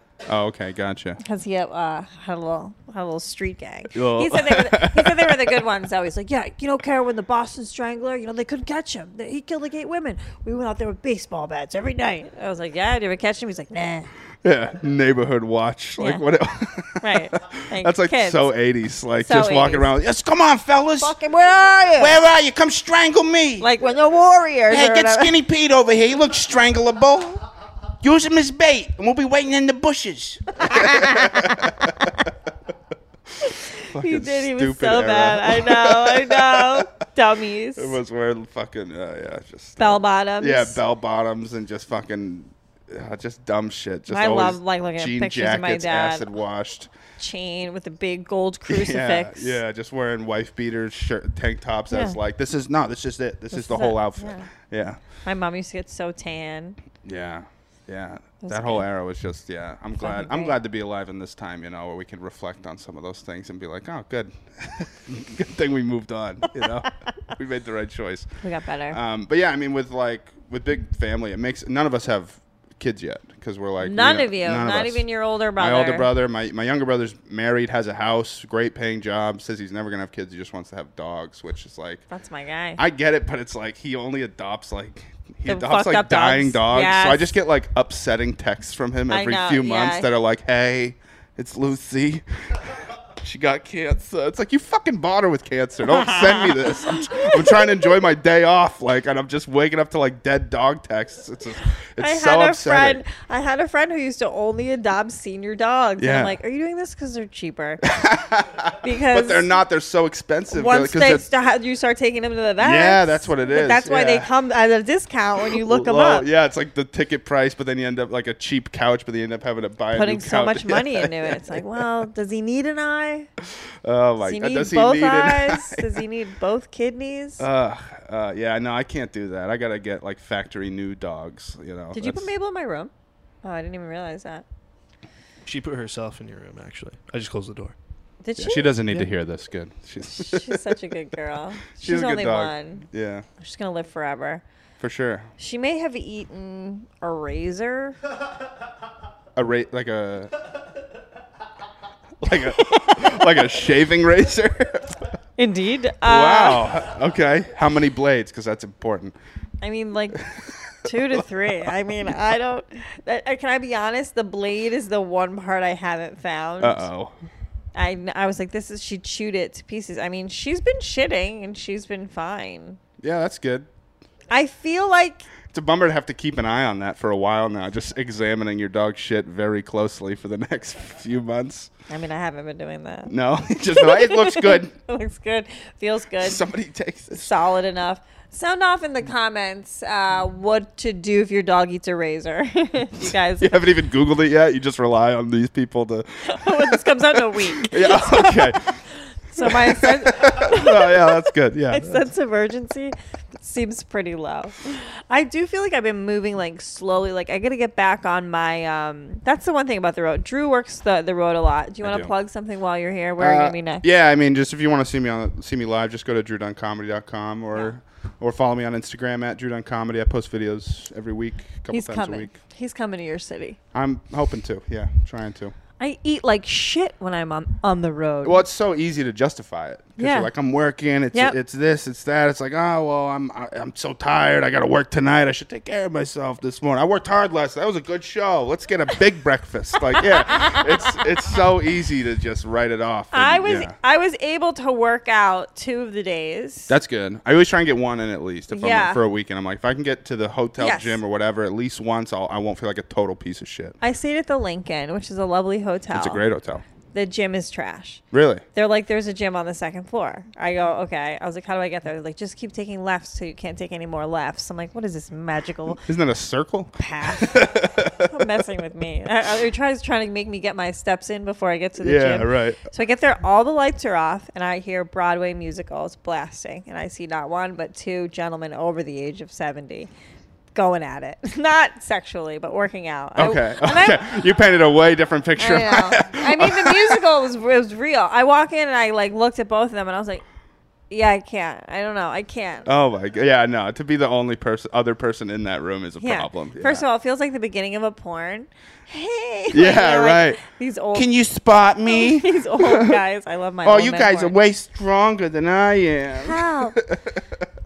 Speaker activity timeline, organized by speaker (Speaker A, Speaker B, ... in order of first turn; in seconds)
Speaker A: 0.2-1.2, 3.9-5.6, 14.4-21.1, 22.0-23.7, 24.7-27.4, 28.0-32.3, 33.9-36.9, 37.8-46.9, 48.7-55.0, 57.0-68.3, 68.9-75.0, 75.5-82.0, 82.8-103.0, 106.0-106.4, 107.8-111.2, 112.6-114.3, 115.4-121.6, 123.4-126.0, 127.4-132.3, 138.4-140.8, 141.7-143.2, 144.8-145.3, 149.3-150.3, 152.2-155.0, 156.0-159.1, 160.2-162.1, 166.6-167.1, 173.0-173.7, 175.5-181.7, 183.1-184.7, 186.2-187.3, 193.4-198.8, 199.3-202.0, 211.8-212.1, 213.2-222.3, 223.7-225.5, 228.2-243.7, 246.7-253.8, 255.9-256.6, 258.1-258.4, 265.7-268.2, 271.8-272.6, 283.1-287.0, 292.6-296.8, 299.5-300.4, 300.9-303.0, 303.6-307.4
Speaker B: 1.2-14.1, 17.0-18.5, 19.2-19.9, 21.0-22.2, 23.6-25.3, 30.6-31.7, 33.4-38.0, 39.8-40.8, 44.1-46.2, 47.2-49.6, 51.9-52.2, 53.5-54.5, 55.2-56.8, 58.4-58.9, 60.0-60.5, 68.4-69.0, 73.8-76.1, 82.1-82.8, 85.5-87.3, 89.1-90.1, 95.9-97.8, 102.0-107.8, 108.8-109.5, 110.5-116.3, 119.9-123.3, 124.2-127.4, 131.9-132.9, 133.4-134.4, 138.2-139.0, 140.1-142.8, 143.4-144.4, 145.4-147.9, 152.5-153.3, 155.4-156.7, 159.6-160.2, 160.8-166.9, 167.7-172.8, 174.3-175.3, 181.9-183.1, 183.7-186.4, 187.2-193.6, 196.2-198.7, 199.3-213.8, 221.7-223.6, 225.8-228.4, 230.0-230.3, 240.3-240.7, 243.1-246.7, 248.5-249.0, 250.6-251.0, 253.8-256.2, 256.9-258.0, 258.5-265.8, 266.8-267.5, 268.0-279.9, 280.5-284.1, 285.4-290.2, 290.9-292.7, 296.0-301.1, 301.9-304.3, 306.2-306.8
Speaker C: 135.4-137.7